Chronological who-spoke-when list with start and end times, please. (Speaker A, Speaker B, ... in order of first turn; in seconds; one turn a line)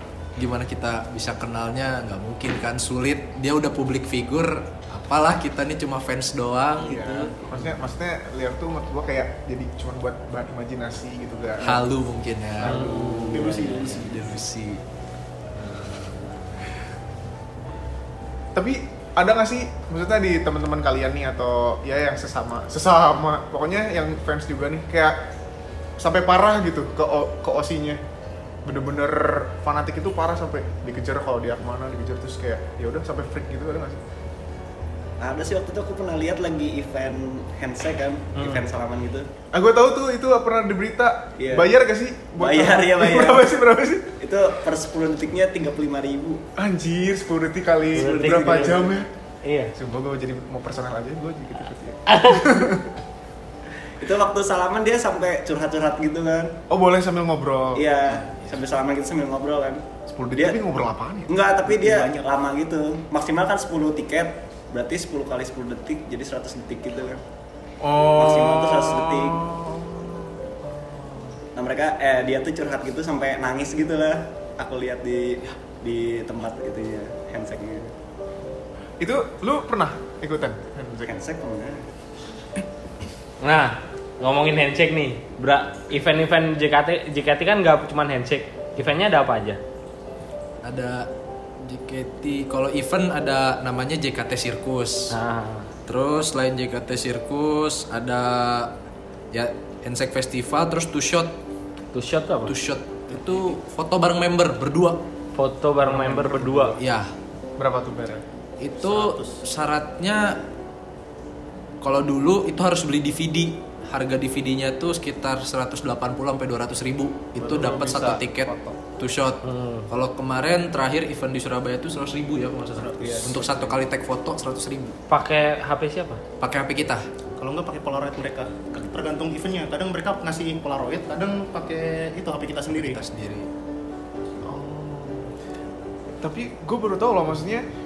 Speaker A: 0.4-7.3
Speaker B: 6.8-11.9
Speaker A: 11.6-14.8
Speaker C: 12.6-13.5
Speaker D: 12.6-14.3
Speaker C: 15.6-16.1
Speaker B: 18.5-25.2
Speaker B: 26.0-28.0
Speaker B: 28.6-34.0
Speaker E: 35.2-39.3
Speaker C: 38.4-38.6
Speaker B: 39.5-44.1
Speaker E: 41.4-41.7
Speaker E: 42.4-43.5
Speaker E: 44.2-46.4
Speaker B: 46.6-49.1
Speaker C: 47.9-48.9
Speaker D: 48.2-48.8
Speaker C: 49.4-49.7
Speaker B: 49.8-52.9
Speaker C: 52.1-52.5
Speaker E: 54.0-56.5
Speaker B: 56.7-57.8
Speaker E: 57.7-59.8
Speaker B: 60.1-61.3
Speaker E: 60.3-60.6
Speaker E: 61.3-67.2
Speaker D: 61.6-62.2
Speaker B: 67.8-71.3
Speaker E: 68.1-69.4
Speaker E: 71.5-77.9
Speaker B: 79.0-81.1
Speaker E: 81.0-81.8
Speaker C: 83.4-89.6
Speaker A: 90.6-95.1
Speaker C: 95.1-95.7
Speaker A: 95.9-98.8
Speaker A: 99.3-101.3
Speaker C: 101.9-102.5
Speaker A: 102.5-105.0
Speaker D: 103.1-103.5
Speaker C: 105.3-106.8
Speaker B: 105.8-106.8
Speaker A: 106.8-107.1
Speaker B: 107.6-108.2
Speaker A: 108.6-110.4
Speaker D: 108.8-109.4
Speaker A: 111.8-125.0
Speaker B: 117.4-118.8
Speaker C: 119.4-119.9
Speaker D: 122.7-123.8
Speaker E: 123.0-123.3
Speaker C: 125.1-126.2
Speaker A: 126.4-127.0
Speaker D: 127.4-133.0
Speaker A: 132.7-133.5
Speaker B: 134.4-135.3
Speaker B: 136.2-137.7